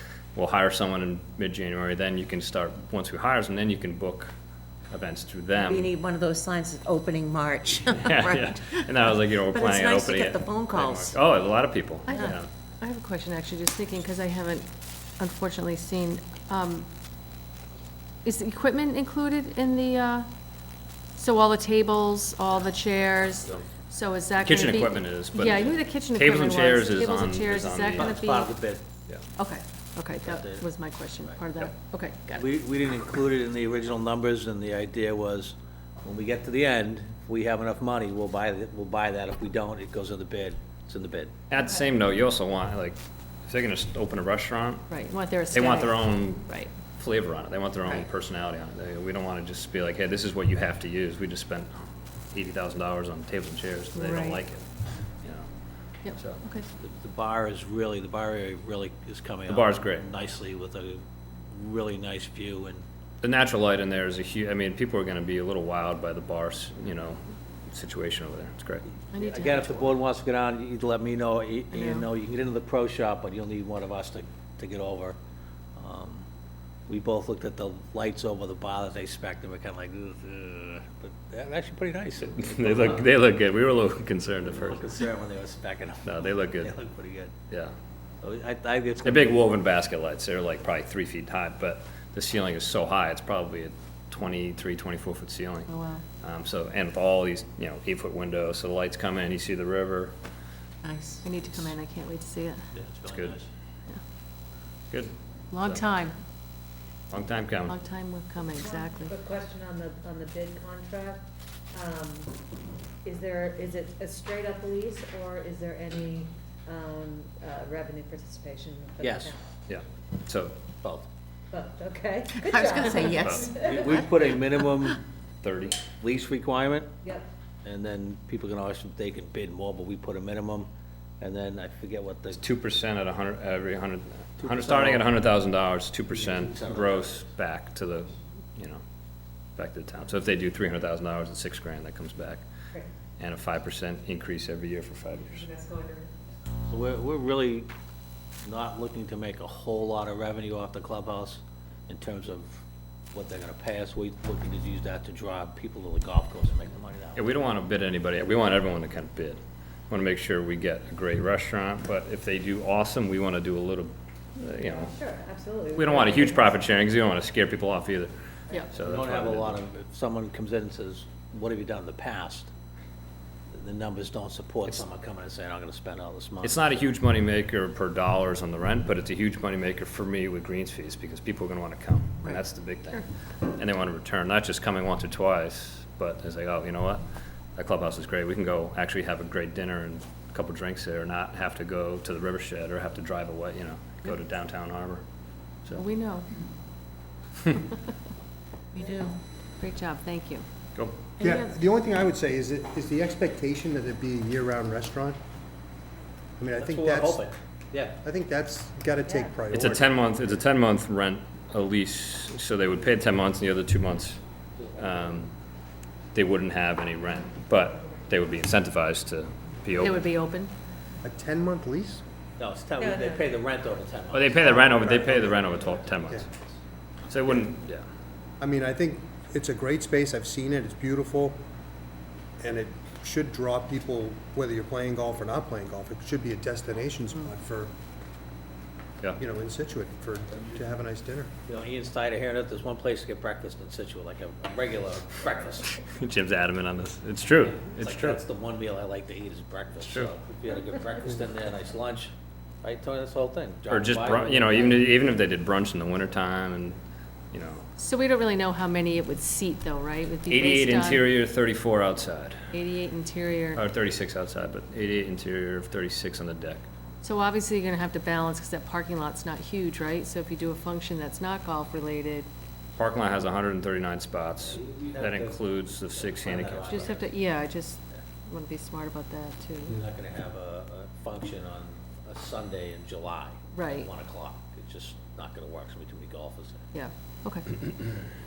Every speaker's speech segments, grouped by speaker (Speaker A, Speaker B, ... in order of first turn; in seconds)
Speaker A: 0.3-4.3, 4.9-5.9, 7.9-12.5, 24.4-28.1, 41.5-44.9, 45.5-51.8, 52.3-55.5, 56.1-56.4, 59.5-60.1, 63.2-68.8, 82.3-84.8, 86.0-86.7, 89.0-100.1, 103.0-103.4, 104.9-105.8, 107.1-107.8, 119.7-120.5, 123.2-123.5, 125.4-125.8, 132.3-138.8, 139.6-142.4, 143.2-145.5, 157.2-164.9, 165.8-168.1, 168.7-169.6, 176.4-183.0, 183.6-187.0, 187.6-195.0, 209.5-214.2, 214.7-215.3, 216.1-220.1, 224.1-226.3, 227.1-227.8, 245.8-248.2, 249.8-250.1, 253.7-256.8, 257.3-257.7, 260.3-262.4, 263.5-266.6, 272.8-277.0
Speaker B: 5.6-8.6, 9.5-11.1, 100.8-101.2, 122.4-124.0, 198.7-199.2
Speaker C: 12.1-16.9, 18.2-20.3, 21.1-28.5, 29.4-32.4, 44.9-46.7, 53.9-54.4, 56.0-56.7, 69.1-69.9, 71.7-72.1, 95.7-96.0, 101.2-102.7, 105.5-106.2, 107.7-109.1, 145.5-146.0, 195.7-196.3, 199.6-200.4, 201.2-201.6, 219.7-220.5, 257.8-261.1, 262.5-263.6, 267.0-272.3, 276.7-279.8, 283.5-283.9, 286.7-287.6
Speaker D: 27.9-28.8, 30.2-30.6, 32.3-41.3, 56.7-62.8, 69.1-75.2, 75.8-76.2, 76.9-83.1, 84.5-87.3, 88.2-89.4, 102.7-103.5, 119.0-119.3, 123.2-125.0, 126.0-127.0, 127.6-130.7, 131.2-132.4, 134.4-135.1, 136.1-137.2, 146.7-147.7, 148.4-157.2, 168.7-172.5, 173.5-176.6, 206.6-208.0, 222.4-224.8, 241.5-245.8, 247.6-254.9, 274.6-277.1, 279.7-286.7
Speaker E: 108.5-112.3, 113.0-119.4, 121.5-123.9, 127.0-127.3, 164.4-166.6, 168.5-168.7, 209.0-209.3, 222.8-223.3
Speaker F: 201.2-205.2, 206.4-207.3, 208.0-209.9, 221.0-222.0, 224.6-225.5, 227.2-227.5, 228.4-231.4, 232.4-237.7, 239.2-241.3